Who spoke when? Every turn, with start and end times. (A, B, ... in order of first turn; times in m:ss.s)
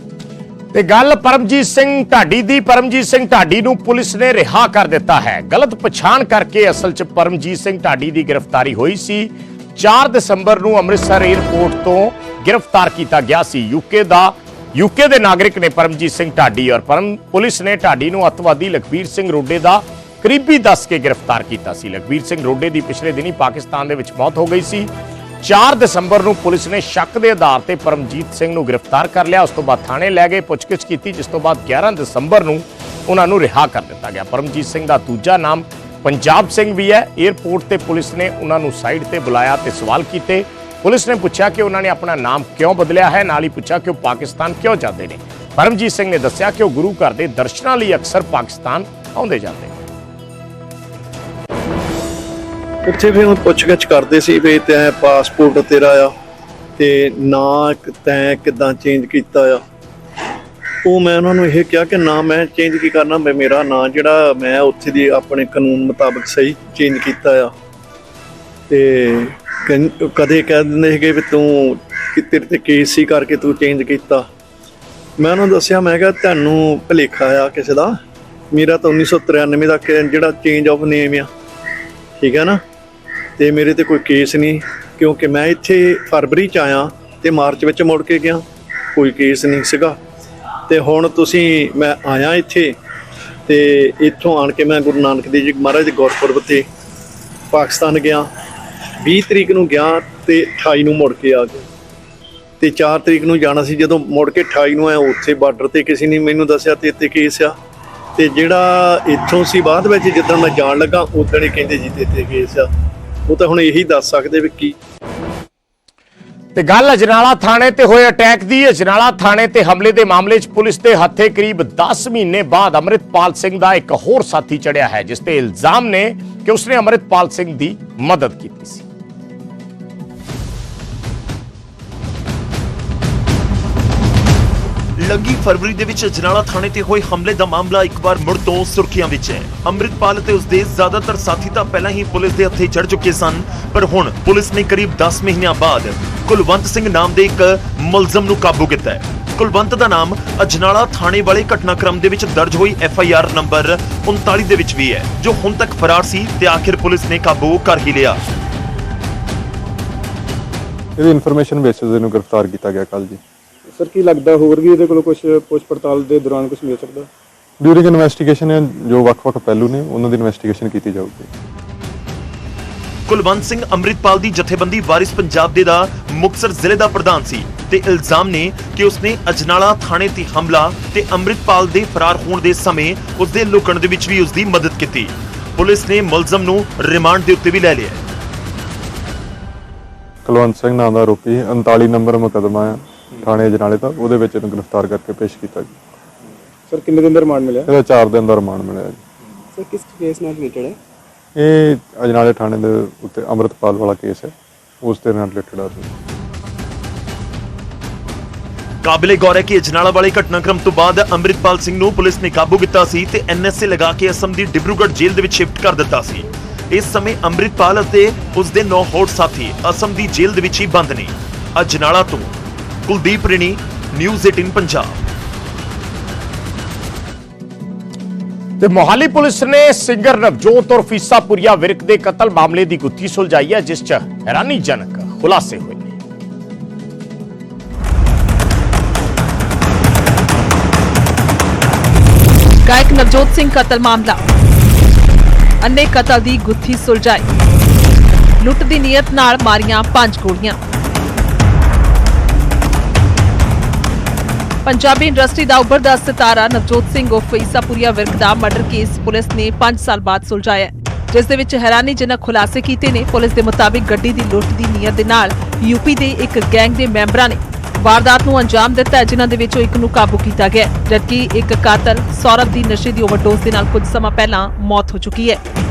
0:00.7-0:24.9 A
0:25.4-0:49.7 A
0:52.8-0:56.1 B
0:56.8-0:59.6 B
1:00.8-1:07.5 B
1:08.7-1:14.2 B
1:15.2-1:18.0 B
1:18.5-1:21.3 B
1:22.2-1:22.6 B
1:23.4-1:28.4 B
1:28.9-1:30.0 B
1:30.7-1:32.7 B
1:33.5-1:36.6 B
1:37.5-1:38.3 B
1:39.0-1:41.6 B
1:42.6-1:47.5 B
1:48.2-1:52.7 B
1:53.3-1:54.7 B
1:56.5-2:08.8 A
2:15.0-2:38.2 C
2:41.0-2:43.2 D
2:43.7-2:47.1 E
2:47.6-2:51.3 D
2:53.1-3:08.0 C
3:10.2-3:15.8 D
3:16.7-3:17.7 E
3:17.7-3:19.0 D
3:19.5-3:20.8 E
3:21.4-3:25.9 D
3:28.8-3:45.0 C
3:48.6-3:55.9 A
4:02.6-4:04.2 F
4:05.6-4:07.3 F
4:08.4-4:10.6 F
4:14.6-4:35.4 F